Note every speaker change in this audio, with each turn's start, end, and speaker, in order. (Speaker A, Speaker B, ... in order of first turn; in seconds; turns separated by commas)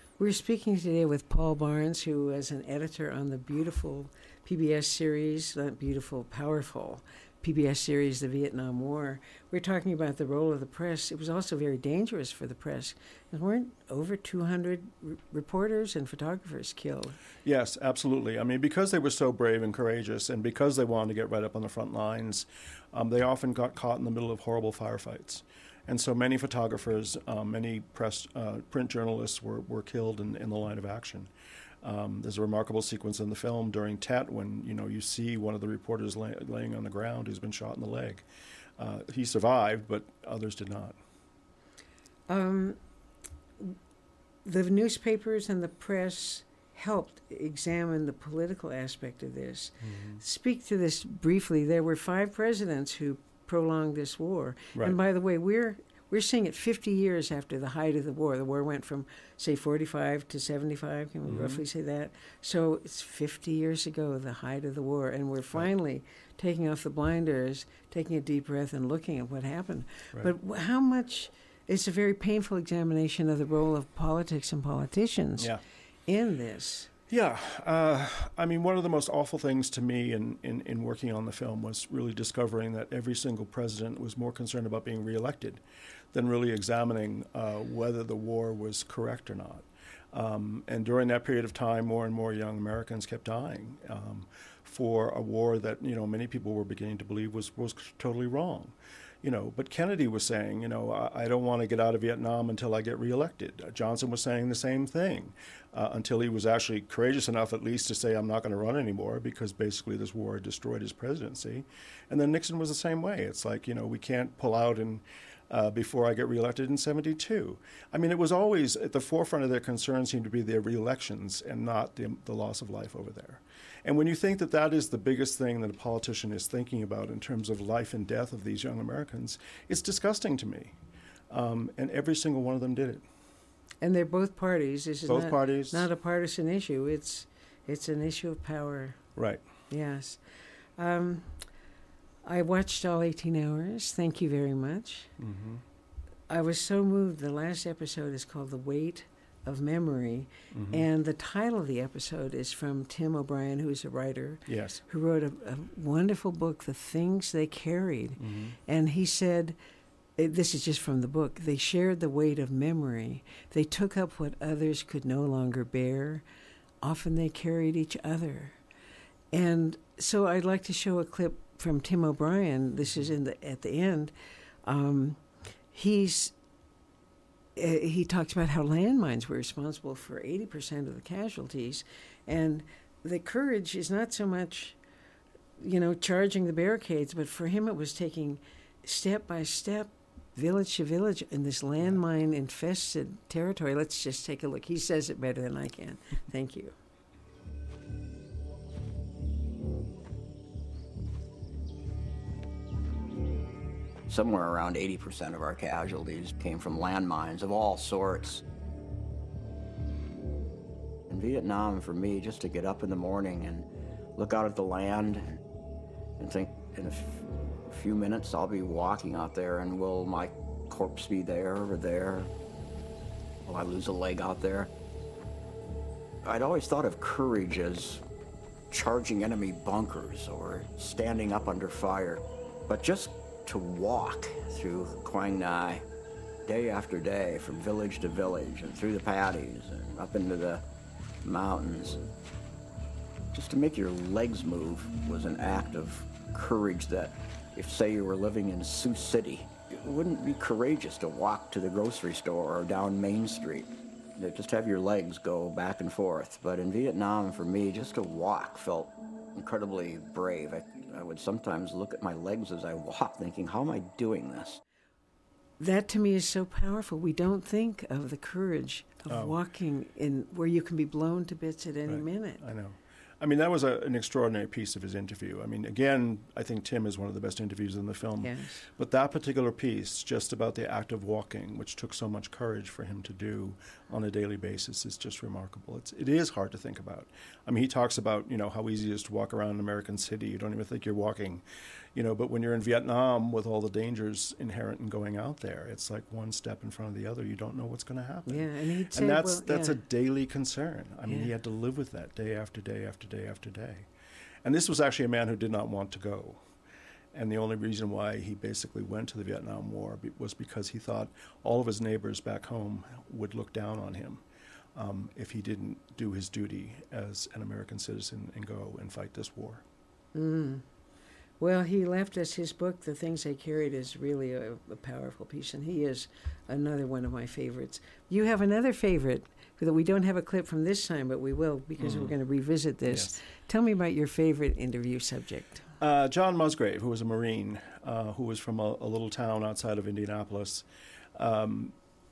Speaker A: 0.2-17.2, Speaker B: 17.4-31.3, Speaker B: 31.8-38.2, Speaker B: 38.8-41.0, Speaker A: 42.3-42.8, Speaker A: 44.5-75.5, Speaker B: 49.8-50.2, Speaker B: 61.3-61.6, Speaker A: 76.1-76.9, Speaker B: 77.1-85.6, Speaker B: 86.1-130.8, Speaker B: 131.3-133.1, Speaker A: 133.8-139.0, Speaker B: 135.1-135.9, Speaker B: 139.2-139.4, Speaker A: 139.7-140.2, Speaker A: 140.8-141.4, Speaker A: 142.2-145.1, Speaker B: 145.2-145.6, Speaker A: 146.3-159.6, Speaker B: 150.5-150.8, Speaker B: 154.5-154.8, Speaker B: 158.2-158.6, Speaker A: 160.2-166.2, Speaker A: 166.8-168.6, Speaker A: 169.3-174.1, Speaker A: 174.7-175.2, Speaker A: 175.7-176.3, Speaker A: 177.6-184.8, Speaker A: 185.6-196.7, Speaker C: 204.1-208.4, Speaker C: 211.1-215.4, Speaker C: 216.2-222.3, Speaker C: 223.5-224.7, Speaker C: 226.2-228.0, Speaker C: 228.7-235.8, Speaker C: 236.5-240.6, Speaker C: 241.2-242.0, Speaker C: 243.3-264.6, Speaker A: 265.6-272.4, Speaker B: 269.1-269.4, Speaker B: 271.9-291.4, Speaker A: 278.2-278.7, Speaker B: 291.9-303.9, Speaker A: 298.3-299.8, Speaker B: 304.4-306.4, Speaker B: 307.1-314.2, Speaker B: 314.8-319.6, Speaker A: 320.1-320.6, Speaker A: 321.4-335.7, Speaker B: 331.8-332.1, Speaker B: 332.9-333.1, Speaker B: 335.8-340.6, Speaker B: 341.2-341.7